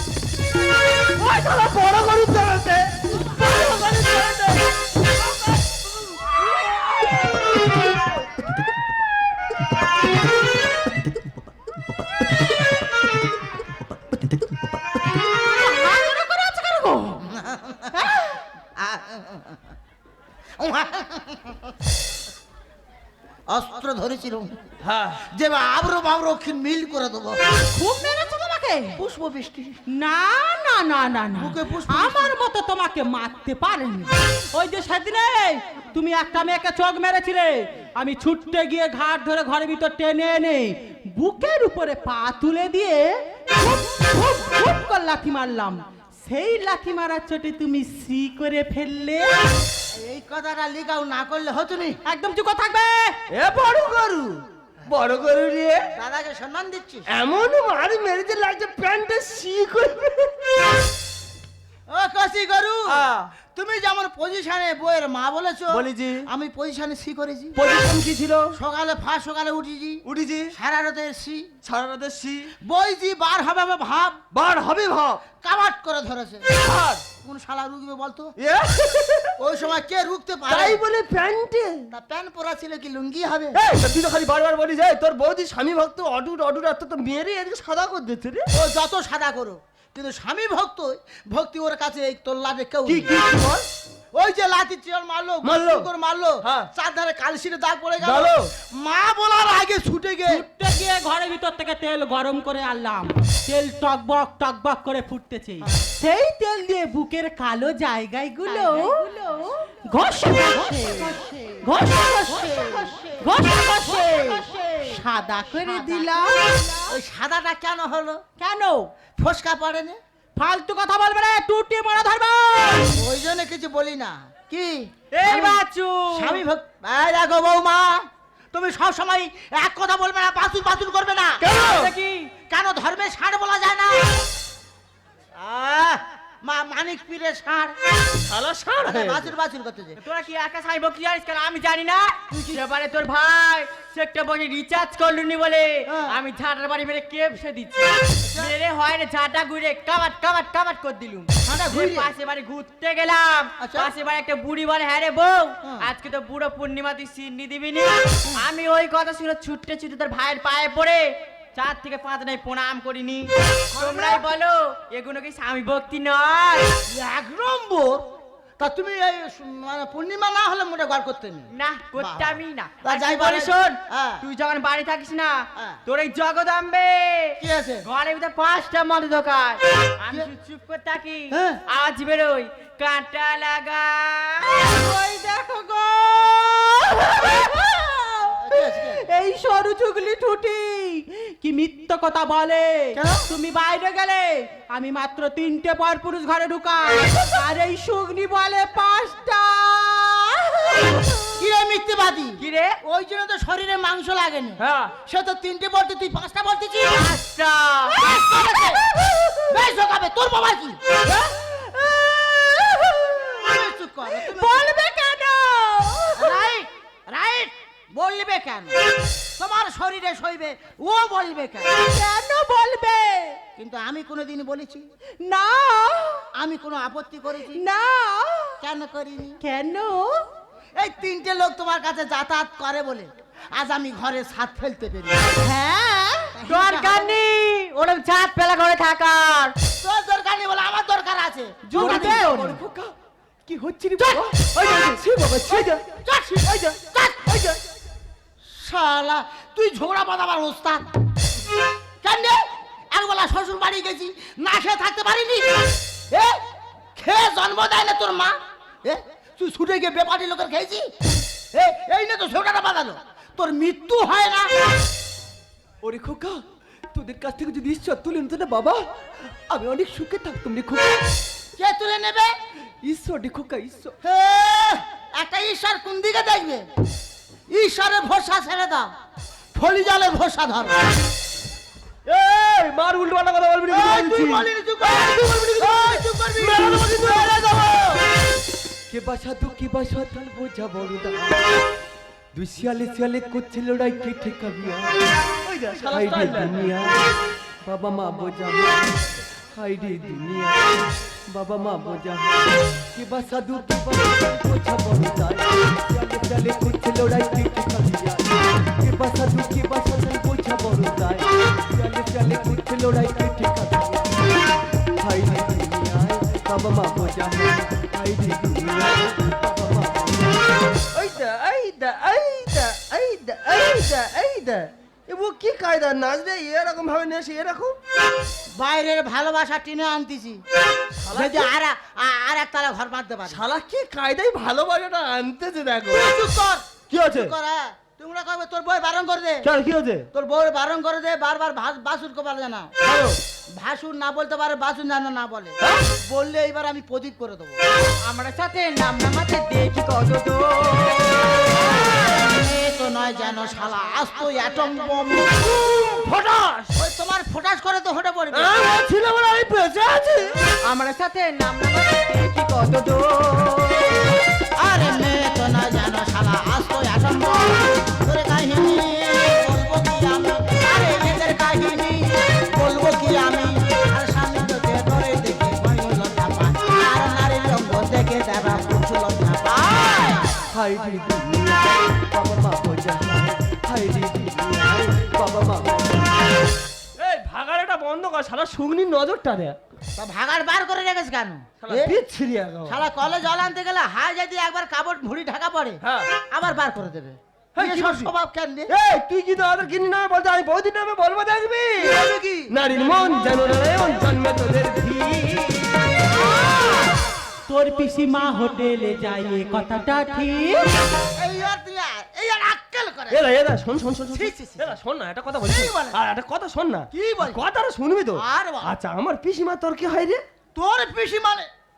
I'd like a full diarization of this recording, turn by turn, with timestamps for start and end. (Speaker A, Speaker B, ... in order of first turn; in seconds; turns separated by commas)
Speaker A: 1.1-8.1, Speaker B: 15.2-17.2, Speaker C: 17.3-18.0, Speaker B: 17.9-18.4, Speaker C: 18.8-19.6, Speaker C: 20.6-21.7, Speaker C: 23.5-24.6, Speaker A: 24.8-25.2, Speaker C: 25.3-27.4, Speaker B: 27.7-29.0, Speaker C: 28.9-29.8, Speaker B: 29.9-49.3, Speaker C: 31.4-32.3, Speaker C: 49.9-52.0, Speaker B: 52.0-53.2, Speaker A: 53.3-55.8, Speaker C: 55.9-57.1, Speaker A: 57.1-60.5, Speaker C: 61.9-67.6, Speaker A: 62.9-63.3, Speaker A: 65.7-66.2, Speaker A: 67.5-68.5, Speaker C: 68.5-70.0, Speaker A: 70.0-70.5, Speaker C: 70.5-71.5, Speaker A: 71.6-72.5, Speaker C: 72.7-74.2, Speaker A: 74.3-75.2, Speaker C: 75.4-76.4, Speaker A: 76.5-77.0, Speaker C: 77.2-78.3, Speaker A: 78.4-79.3, Speaker C: 79.4-80.8, Speaker A: 80.5-81.9, Speaker C: 81.9-83.6, Speaker A: 83.5-88.5, Speaker C: 88.5-93.1, Speaker A: 92.8-93.7, Speaker C: 94.2-100.4, Speaker A: 95.4-95.9, Speaker A: 96.4-96.7, Speaker A: 98.0-98.5, Speaker B: 100.2-116.8, Speaker C: 112.3-113.2, Speaker C: 115.7-116.1, Speaker C: 116.9-118.2, Speaker B: 118.4-118.9, Speaker C: 119.2-120.0, Speaker B: 120.3-122.9, Speaker C: 122.9-125.6, Speaker D: 125.1-126.4, Speaker C: 126.1-131.5, Speaker A: 131.4-131.9, Speaker D: 131.4-132.3, Speaker C: 132.5-134.2, Speaker C: 135.4-137.8, Speaker A: 138.3-139.3, Speaker C: 138.8-140.0, Speaker D: 140.0-166.7, Speaker C: 142.3-142.6, Speaker C: 145.9-146.1, Speaker C: 151.4-152.1, Speaker C: 153.6-153.9, Speaker C: 155.6-155.9, Speaker C: 163.7-164.2, Speaker C: 166.9-168.1, Speaker C: 168.6-174.2, Speaker D: 171.5-184.6, Speaker C: 177.4-177.8, Speaker C: 181.3-181.6, Speaker B: 184.6-201.2, Speaker C: 188.3-189.0, Speaker C: 192.9-193.3, Speaker C: 201.3-207.1, Speaker D: 202.4-202.8, Speaker A: 204.6-204.9, Speaker D: 206.9-208.0, Speaker C: 208.0-208.8, Speaker B: 208.9-209.4, Speaker C: 209.5-210.9, Speaker B: 211.1-213.4, Speaker C: 213.4-214.6, Speaker B: 214.1-216.4, Speaker C: 216.2-218.7, Speaker C: 219.4-221.7, Speaker B: 221.7-223.4, Speaker C: 223.6-224.8, Speaker B: 225.2-226.3, Speaker C: 226.4-227.6, Speaker B: 227.5-228.6, Speaker C: 228.6-229.4, Speaker B: 229.4-230.2, Speaker C: 230.8-235.3, Speaker B: 235.4-236.3, Speaker C: 236.3-237.0, Speaker D: 236.4-239.5, Speaker C: 239.8-242.3, Speaker B: 241.7-242.6, Speaker E: 241.7-242.9, Speaker E: 243.4-245.8, Speaker C: 245.5-247.2, Speaker E: 246.4-246.7, Speaker E: 247.3-247.6, Speaker C: 248.5-250.8, Speaker C: 252.0-252.4, Speaker C: 252.9-255.5, Speaker C: 256.1-256.4, Speaker C: 256.9-260.9, Speaker C: 261.5-264.5, Speaker E: 265.8-266.4, Speaker E: 266.9-268.8, Speaker E: 269.5-271.1, Speaker C: 271.6-272.3, Speaker E: 272.8-273.9, Speaker C: 274.0-276.6, Speaker C: 277.5-278.9, Speaker C: 279.5-280.7, Speaker A: 282.1-287.9, Speaker C: 283.7-287.6, Speaker E: 288.9-291.4, Speaker E: 292.3-295.0, Speaker A: 295.4-296.7, Speaker E: 295.7-297.0, Speaker E: 297.6-300.8, Speaker E: 301.3-302.4, Speaker E: 302.9-314.3, Speaker E: 315.0-320.5, Speaker A: 320.9-327.8, Speaker C: 328.6-330.4, Speaker A: 331.0-331.5, Speaker C: 331.1-333.4, Speaker A: 333.2-336.1, Speaker C: 335.9-339.4, Speaker A: 336.9-337.3, Speaker A: 339.4-340.1, Speaker C: 340.1-342.7, Speaker A: 342.8-343.2, Speaker C: 343.6-347.6, Speaker D: 348.0-351.5, Speaker C: 351.5-355.4, Speaker A: 355.3-356.7, Speaker C: 356.8-358.5, Speaker A: 358.3-360.4, Speaker D: 360.7-363.9, Speaker C: 364.6-380.4, Speaker E: 380.5-386.1, Speaker A: 387.0-389.6, Speaker C: 390.0-392.0, Speaker A: 391.6-392.8, Speaker C: 392.7-395.8, Speaker C: 396.3-398.7, Speaker A: 397.5-398.1, Speaker A: 398.7-402.0, Speaker C: 401.8-402.5, Speaker A: 402.5-406.1, Speaker C: 406.2-407.0, Speaker B: 407.5-410.7, Speaker C: 411.1-413.2, Speaker A: 413.1-420.2, Speaker C: 414.1-414.8, Speaker C: 415.5-416.0, Speaker C: 416.9-417.4, Speaker C: 418.2-418.7, Speaker C: 420.5-421.5